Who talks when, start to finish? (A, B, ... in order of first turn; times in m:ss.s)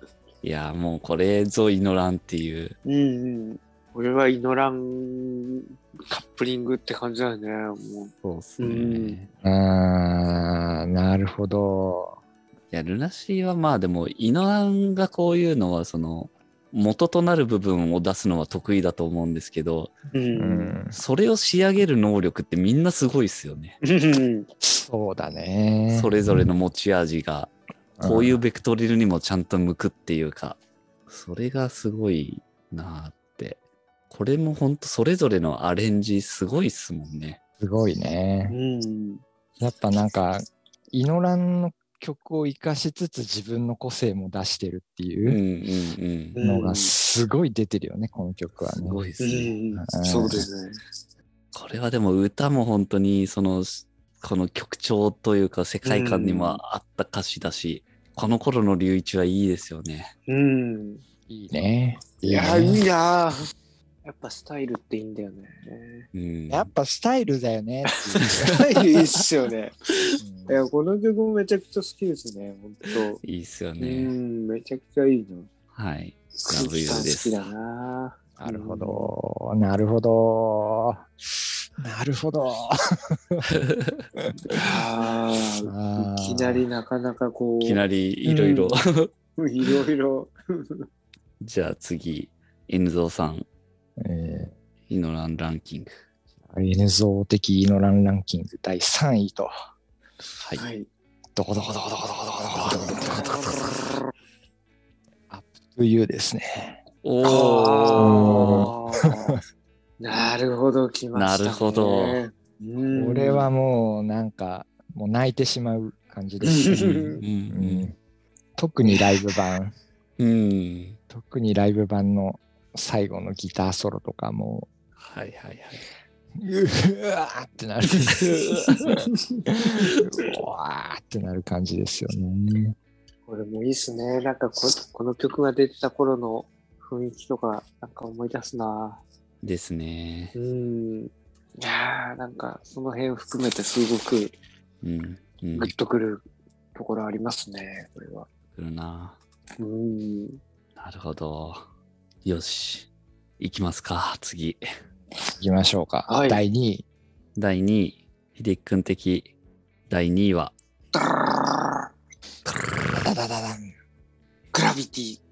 0:00.4-0:02.8 A
0:02.8-0:09.2 B
0:08.2-0:09.3 A
0:09.4-0:12.2 C
0:12.7-0:20.0 A
0:20.1-0:20.8 B
0:20.4-0:21.0 C
0:20.9-0:23.8 A
0:23.8-0:24.5 B
0:24.6-0:26.5 C
0:25.9-0:33.6 A
0:28.0-0:28.4 C
0:34.1-0:37.4 A
0:37.6-0:38.6 C
0:38.5-0:39.2 B
0:39.6-0:45.4 C
0:45.2-0:46.4 A
0:46.4-0:47.0 B
0:46.4-0:49.1 C
0:48.6-0:49.5 A
0:49.2-0:50.8 B
0:49.7-0:50.5 C
0:51.5-1:00.1 A
0:55.8-0:56.6 B
1:00.3-1:01.0 B
1:01.3-1:02.8 C
1:02.2-1:03.4 B
1:04.0-1:06.1 B
1:06.1-1:06.7 A
1:06.5-1:08.6 C
1:08.5-1:09.8 B
1:10.2-1:10.6 C
1:10.5-1:13.2 B
1:13.2-1:14.1 A
1:13.8-1:15.5 B
1:15.7-1:17.4 A
1:16.4-1:19.1 B
1:18.4-1:21.0 C
1:21.8-1:23.5 C
1:23.5-1:24.1 A
1:24.2-1:24.8 C
1:24.5-1:28.8 B
1:25.6-1:26.7 C
1:27.6-1:29.1 A
1:29.4-1:30.9 B
1:31.4-1:33.5 A
1:34.0-1:34.5 C
1:34.9-1:36.0 A
1:36.5-1:39.5 C
1:40.4-1:40.6 A
1:40.6-1:40.9 B
1:41.4-1:43.4 C
1:43.2-1:43.5 B
1:45.3-1:46.8 C
1:47.0-1:48.7 A
1:47.2-1:49.4 B
1:48.0-1:49.4 C
1:50.0-1:53.5 B
1:51.1-1:52.2 A
1:52.8-1:57.9 C
1:56.4-1:57.2 B
1:56.8-1:57.9 A
1:58.6-1:59.7 C
1:58.9-1:59.5 B
2:00.2-2:01.0 A
2:01.1-2:04.7 C
2:05.0-2:05.8 A
2:06.4-2:12.8 C
2:08.0-2:09.5 B
2:08.5-2:08.8 A
2:13.3-2:19.0 B
2:19.4-2:20.4 A
2:20.4-2:24.4 B
2:24.8-2:25.7 A
2:25.6-2:28.3 B
2:28.5-2:29.2 A
2:29.6-2:30.4 B
2:30.8-2:31.6 A
2:32.2-2:32.9 A
2:33.4-2:34.6 A
2:35.3-2:36.8 C
2:36.1-2:36.4 B
2:37.4-2:39.3 A
2:39.9-2:40.6 A
2:40.9-2:41.9 B
2:42.5-2:42.8 A
2:42.8-2:43.7 C
2:44.5-2:45.2 B